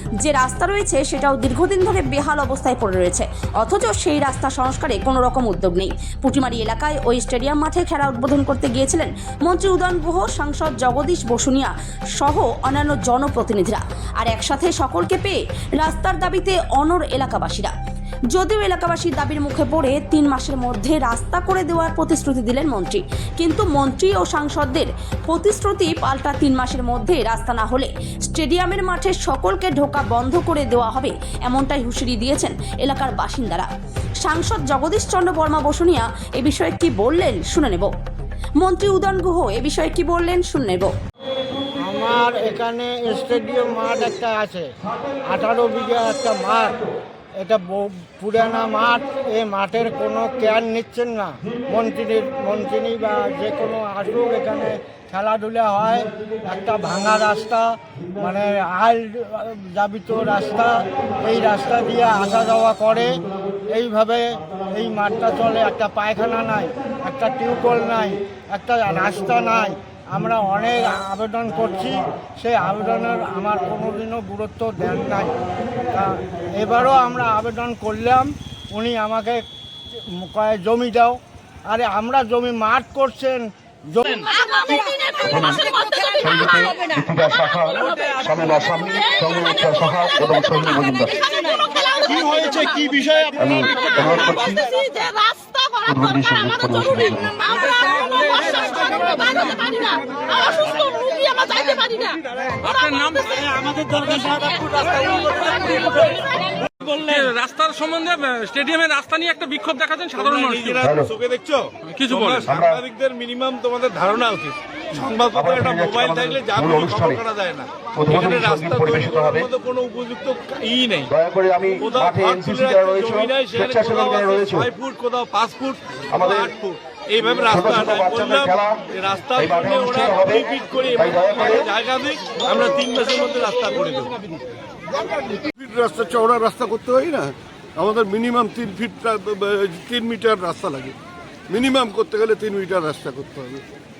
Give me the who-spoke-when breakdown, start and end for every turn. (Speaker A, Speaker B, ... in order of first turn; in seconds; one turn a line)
Speaker A: 0.2-17.7
Speaker A: 18.3-33.7
Speaker A: 34.2-37.9
Speaker A: 38.6-40.9
Speaker B: 41.8-44.7
Speaker B: 45.3-46.8
Speaker B: 47.4-63.2
Speaker B: 63.7-75.3
Speaker B: 75.9-79.4
Speaker B: 80.1-84.5
Speaker C: 85.0-91.4
Speaker C: 93.3-94.9
Speaker C: 95.8-97.5
Speaker D: 97.6-100.0
Speaker D: 101.5-105.9
Speaker E: 104.4-105.9
Speaker D: 106.8-110.8
Speaker E: 110.2-121.1
Speaker C: 110.8-111.1
Speaker D: 111.9-112.4
Speaker C: 112.4-112.8
Speaker C: 115.3-117.2
Speaker C: 118.0-119.5
Speaker C: 121.1-124.7
Speaker E: 121.8-134.2
Speaker C: 126.1-126.5
Speaker C: 127.3-128.8
Speaker C: 129.3-131.7
Speaker F: 135.1-140.9
Speaker F: 141.5-143.7